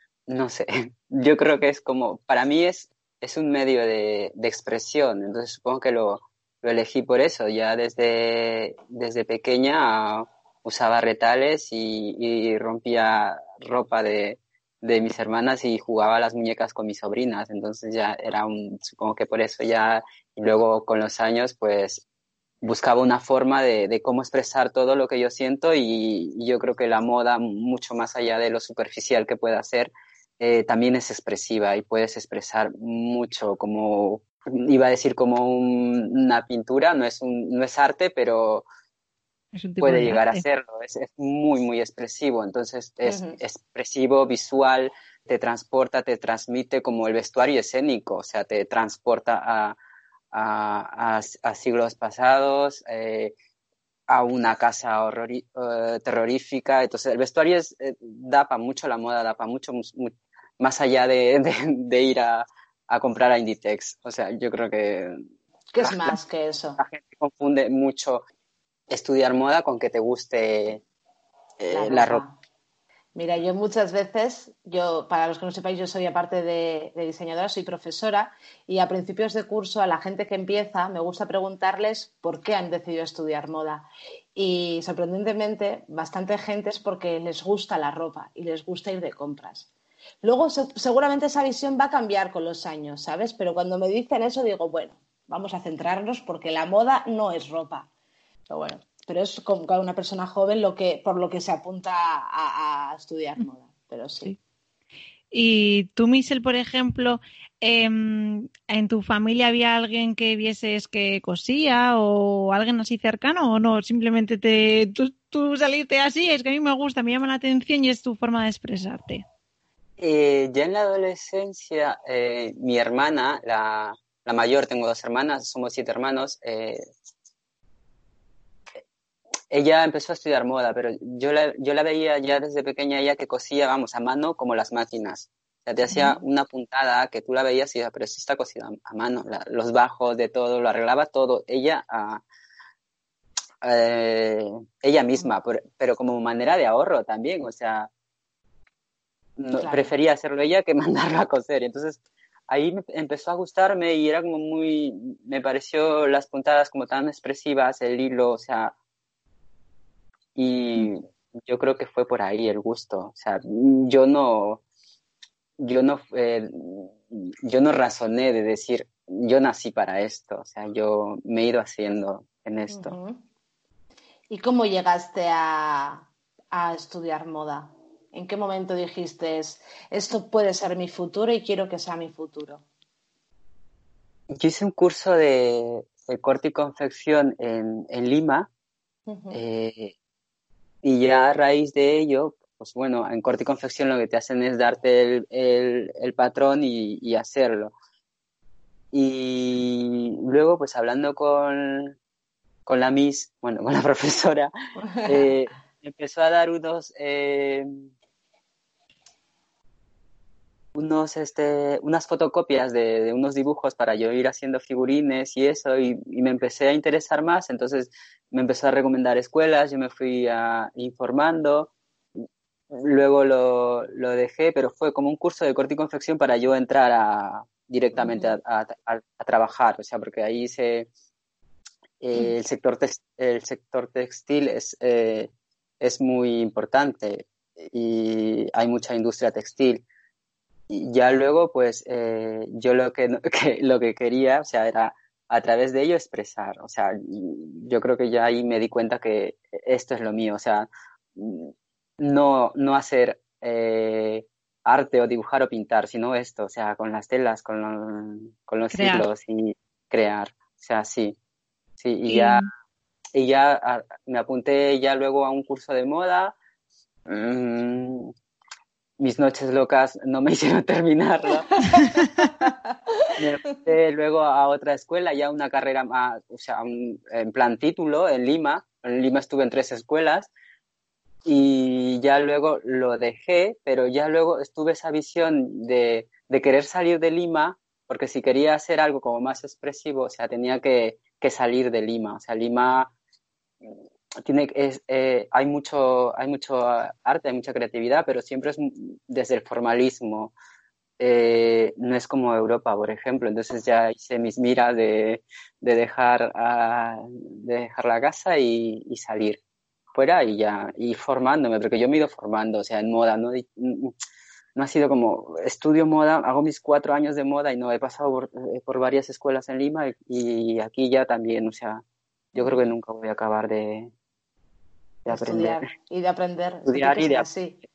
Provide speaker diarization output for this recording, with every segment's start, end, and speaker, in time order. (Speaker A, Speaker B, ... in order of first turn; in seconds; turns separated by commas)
Speaker A: 0.3-22.0, Speaker A: 22.6-38.6, Speaker B: 39.5-40.4, Speaker A: 39.8-49.8, Speaker C: 43.0-43.4, Speaker A: 50.3-53.3, Speaker A: 54.1-65.2, Speaker C: 65.7-66.8, Speaker A: 65.8-66.2, Speaker A: 66.8-68.2, Speaker A: 68.9-70.8, Speaker A: 71.6-72.2, Speaker C: 71.7-72.3, Speaker C: 73.1-89.7, Speaker C: 90.2-97.9, Speaker C: 98.5-104.3, Speaker B: 105.3-119.2, Speaker A: 120.0-126.8, Speaker A: 129.5-142.2, Speaker C: 135.9-136.2, Speaker A: 143.6-147.9, Speaker A: 149.4-158.7, Speaker C: 149.6-149.9, Speaker A: 160.3-164.6, Speaker A: 165.6-172.9, Speaker C: 172.7-173.2, Speaker C: 174.3-182.6, Speaker A: 184.3-188.5, Speaker C: 189.1-189.4, Speaker A: 189.3-189.9, Speaker A: 190.8-197.7, Speaker A: 198.9-201.9, Speaker A: 202.7-204.5, Speaker C: 204.8-205.3, Speaker A: 205.0-207.9, Speaker A: 210.7-221.7, Speaker A: 222.7-230.9, Speaker C: 228.0-228.3, Speaker A: 232.0-235.3, Speaker A: 235.8-239.8, Speaker A: 240.7-261.1, Speaker B: 258.7-259.1, Speaker A: 261.8-262.5, Speaker B: 262.1-262.5, Speaker A: 263.1-266.4, Speaker A: 267.1-268.1, Speaker A: 269.0-271.6, Speaker C: 271.5-271.9, Speaker C: 272.4-273.1, Speaker A: 273.2-280.3, Speaker A: 281.2-292.9, Speaker A: 294.2-300.3, Speaker A: 301.0-309.4, Speaker A: 309.9-313.9, Speaker A: 314.5-321.8, Speaker C: 322.3-322.6, Speaker A: 322.4-323.9, Speaker A: 325.0-325.6, Speaker C: 325.1-327.6, Speaker A: 326.6-327.3